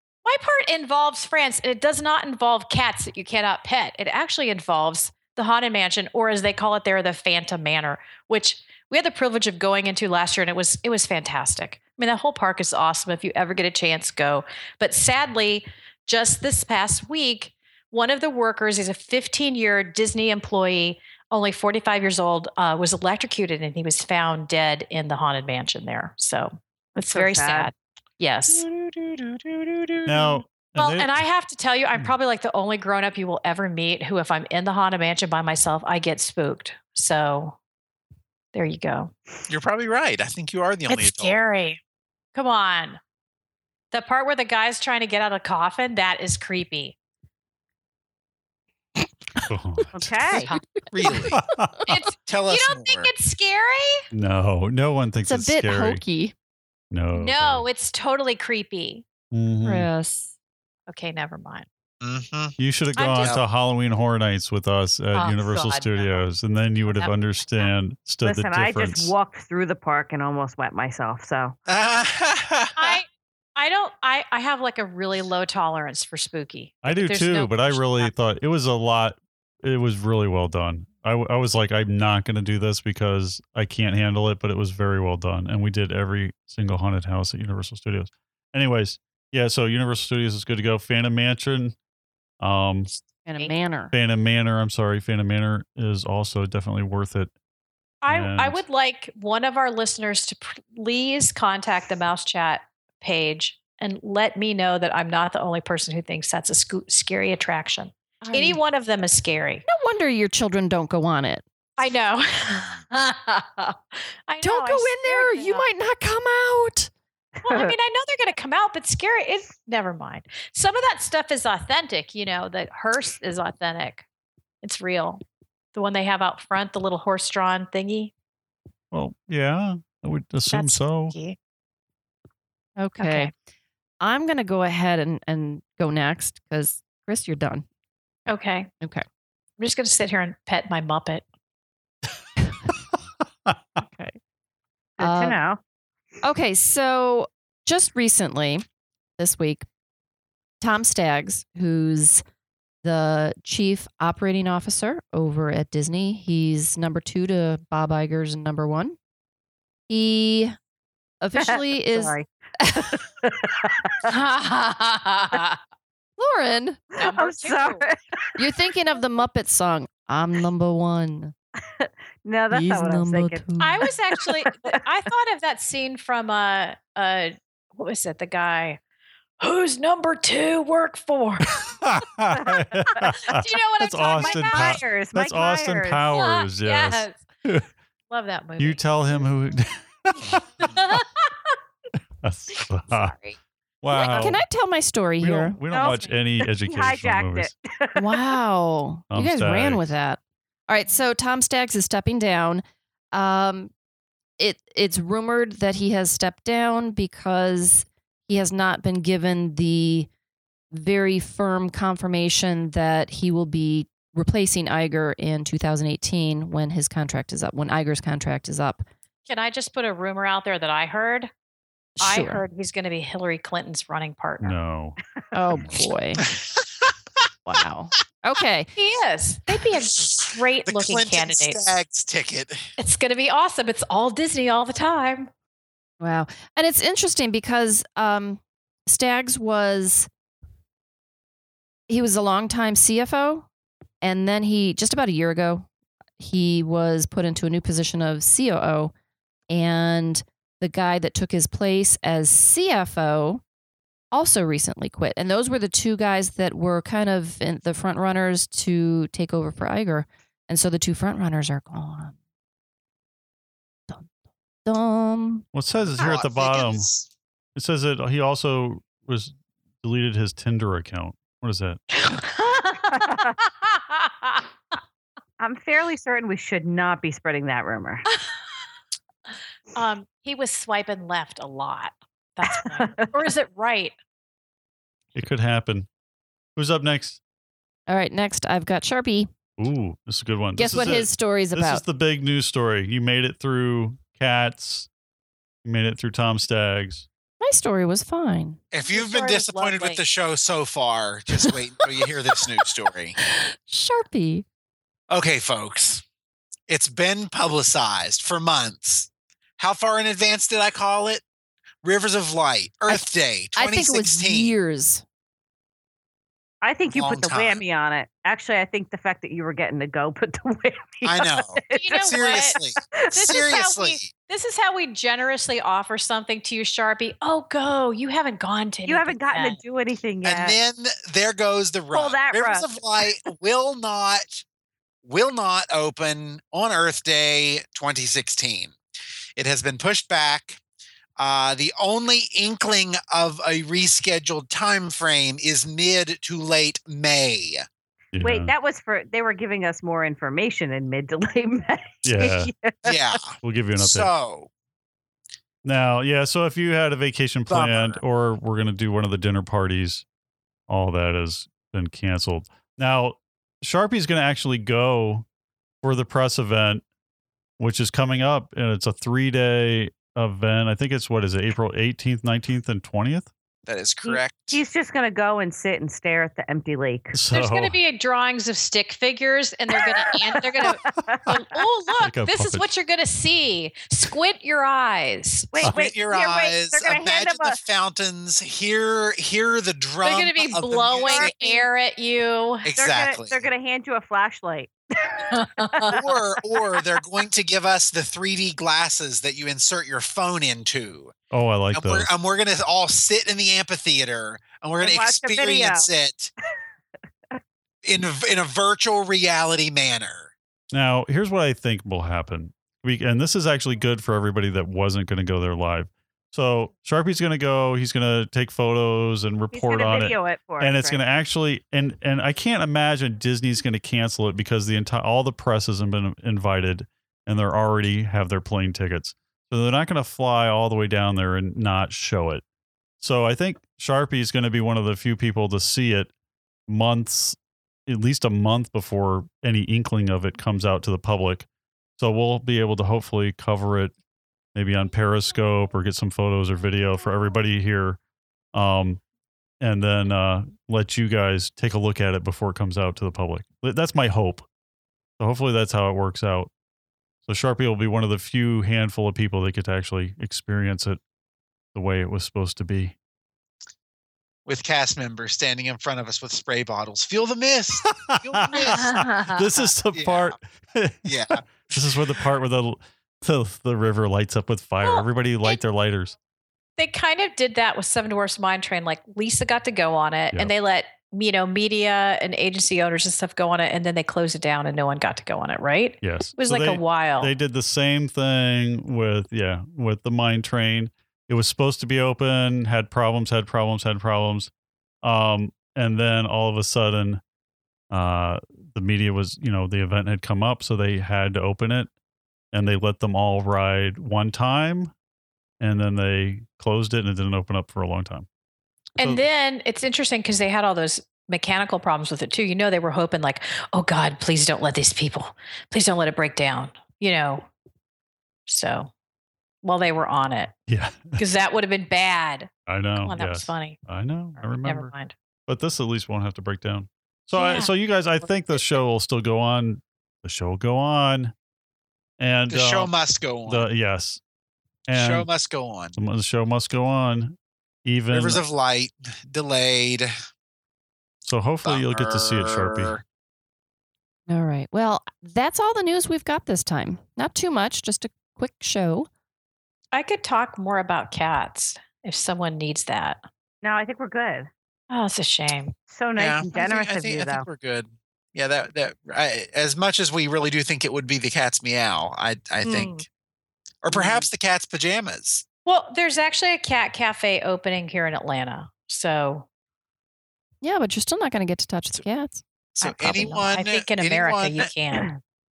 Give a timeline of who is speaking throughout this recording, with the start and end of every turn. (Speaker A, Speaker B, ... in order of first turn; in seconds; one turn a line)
Speaker A: 0.2-28.7
Speaker B: 27.1-27.7
Speaker C: 30.0-31.2
Speaker A: 30.1-37.6
Speaker A: 38.5-39.1
Speaker D: 39.5-41.4
Speaker A: 40.9-41.8
Speaker A: 42.3-43.0
Speaker A: 43.9-46.9
Speaker C: 49.4-50.1
Speaker B: 50.0-50.5
Speaker D: 50.9-51.4
Speaker C: 51.3-51.9
Speaker A: 51.9-54.0
Speaker D: 52.3-53.1
Speaker C: 54.1-56.0
Speaker E: 55.2-56.3
Speaker C: 56.9-57.6
Speaker A: 57.1-59.0
Speaker C: 59.3-59.9
Speaker E: 59.6-60.3
Speaker A: 60.9-61.6
Speaker D: 62.0-62.5
Speaker C: 62.6-69.1
Speaker A: 63.0-63.4
Speaker A: 65.1-66.2
Speaker A: 66.8-67.7
Speaker B: 68.2-71.5
Speaker D: 71.7-73.0
Speaker A: 72.8-78.1
Speaker C: 76.8-91.8
Speaker C: 92.4-92.9
Speaker E: 93.2-93.9
Speaker C: 93.9-97.3
Speaker A: 98.0-109.6
Speaker C: 98.1-98.6
Speaker E: 108.2-108.6
Speaker E: 109.7-111.4
Speaker A: 111.8-115.7
Speaker E: 114.4-116.9
Speaker A: 117.4-124.0
Speaker A: 124.6-125.2
Speaker A: 125.7-128.1
Speaker C: 128.9-131.1
Speaker A: 130.5-131.3
Speaker E: 132.8-133.3
Speaker A: 133.0-133.3
Speaker E: 134.0-137.7
Speaker A: 138.3-138.7
Speaker A: 139.6-141.2
Speaker E: 143.8-144.2
Speaker B: 145.0-145.6
Speaker E: 145.0-145.4
Speaker E: 146.2-148.6
Speaker E: 149.2-149.7
Speaker E: 150.6-152.2
Speaker E: 152.8-158.9
Speaker E: 159.9-160.5
Speaker E: 161.2-162.2
Speaker B: 161.3-163.7
Speaker A: 164.1-165.6
Speaker E: 166.2-166.9
Speaker A: 167.0-167.8
Speaker B: 167.0-168.2
Speaker E: 168.4-171.3
Speaker B: 171.8-173.9
Speaker E: 172.5-173.9
Speaker A: 173.6-178.8
Speaker A: 179.4-181.4
Speaker C: 181.5-187.6
Speaker A: 183.2-184.8
Speaker B: 184.1-186.2
Speaker A: 186.1-187.2
Speaker A: 188.1-188.8
Speaker C: 188.6-190.5
Speaker A: 190.6-191.3
Speaker C: 192.2-193.1
Speaker A: 192.9-193.4
Speaker C: 193.8-194.4
Speaker E: 193.9-195.6
Speaker C: 195.2-197.5
Speaker B: 195.7-198.2
Speaker E: 197.9-203.7
Speaker C: 199.1-199.9
Speaker E: 204.4-210.1
Speaker E: 210.7-218.8
Speaker A: 219.3-221.3
Speaker E: 222.0-222.4
Speaker A: 222.0-224.6
Speaker C: 224.4-225.0
Speaker E: 225.3-226.2
Speaker E: 227.4-228.7
Speaker A: 228.7-231.6
Speaker D: 230.1-232.7
Speaker A: 232.8-235.3
Speaker E: 236.0-240.1
Speaker E: 241.9-243.4
Speaker E: 244.0-245.7
Speaker E: 246.2-248.9
Speaker E: 249.5-253.4
Speaker E: 254.1-262.1
Speaker E: 264.6-265.4
Speaker C: 265.5-266.9
Speaker D: 266.0-267.1
Speaker C: 267.6-271.8
Speaker A: 271.9-274.4
Speaker B: 275.4-278.0
Speaker A: 279.7-283.9
Speaker B: 282.7-283.1
Speaker C: 285.1-285.9
Speaker C: 286.6-287.2
Speaker E: 287.9-289.3
Speaker C: 289.6-294.9
Speaker E: 290.6-291.8
Speaker C: 295.6-297.1
Speaker E: 297.4-298.6
Speaker D: 298.7-303.1
Speaker A: 298.9-300.0
Speaker E: 303.3-304.4
Speaker D: 305.1-306.0
Speaker D: 306.7-311.2
Speaker D: 311.8-314.6
Speaker E: 312.9-315.0
Speaker B: 316.6-322.5
Speaker D: 316.9-317.6
Speaker D: 321.0-324.1
Speaker A: 321.8-322.5
Speaker A: 323.1-329.6
Speaker B: 328.9-330.6
Speaker D: 330.2-334.4
Speaker B: 331.9-332.8
Speaker D: 335.0-338.7
Speaker D: 339.4-340.6
Speaker D: 341.2-347.6
Speaker C: 348.1-348.5
Speaker B: 348.2-352.9
Speaker C: 352.0-352.5
Speaker D: 352.8-354.5
Speaker C: 353.4-354.1
Speaker C: 355.6-360.0
Speaker D: 357.5-358.0
Speaker C: 360.7-365.2
Speaker C: 365.8-366.8
Speaker C: 367.6-373.3
Speaker D: 373.6-374.6
Speaker B: 374.0-377.2
Speaker C: 377.1-377.7
Speaker A: 377.3-385.7
Speaker B: 379.8-381.4
Speaker C: 382.0-382.7
Speaker B: 385.5-387.6
Speaker D: 385.6-391.3
Speaker A: 390.0-392.7
Speaker B: 391.0-391.6
Speaker D: 392.6-393.5
Speaker B: 392.7-396.8
Speaker A: 395.3-395.9
Speaker D: 395.9-401.1
Speaker C: 401.3-402.1
Speaker D: 401.7-406.3
Speaker B: 404.8-405.9
Speaker D: 407.8-410.3
Speaker C: 410.7-432.4
Speaker B: 419.5-421.0
Speaker C: 433.0-436.1
Speaker C: 436.7-441.5
Speaker C: 442.0-443.9
Speaker C: 444.5-448.0
Speaker C: 448.5-449.0
Speaker C: 449.6-454.5
Speaker C: 455.2-456.5
Speaker C: 457.2-461.0
Speaker C: 461.7-462.9
Speaker D: 464.4-468.9
Speaker C: 468.1-476.1
Speaker A: 468.6-469.6
Speaker D: 469.9-470.4
Speaker D: 471.0-471.7
Speaker A: 474.8-475.6
Speaker A: 476.8-487.3
Speaker C: 486.0-494.5
Speaker C: 495.0-497.2
Speaker C: 497.9-501.9
Speaker C: 502.5-504.9
Speaker C: 505.6-508.3
Speaker A: 509.0-517.5
Speaker A: 518.5-518.9
Speaker A: 519.6-520.5
Speaker C: 520.7-521.2
Speaker A: 521.2-523.8
Speaker C: 522.7-524.9
Speaker A: 524.5-525.1
Speaker C: 525.5-531.3
Speaker A: 527.3-527.7
Speaker C: 532.2-532.9
Speaker D: 532.5-533.7
Speaker C: 533.5-534.2
Speaker C: 534.9-535.3
Speaker D: 534.9-536.0
Speaker C: 536.0-538.4
Speaker D: 538.1-540.1
Speaker C: 541.2-543.0
Speaker D: 541.6-543.0
Speaker E: 544.3-549.1
Speaker A: 549.9-553.2
Speaker B: 553.6-554.5
Speaker A: 554.9-555.7
Speaker B: 555.9-557.5
Speaker D: 556.1-563.0
Speaker A: 562.6-563.0
Speaker D: 563.8-565.4
Speaker B: 563.9-564.2
Speaker A: 565.6-569.4
Speaker E: 570.6-572.4
Speaker D: 572.7-574.7
Speaker A: 572.8-575.1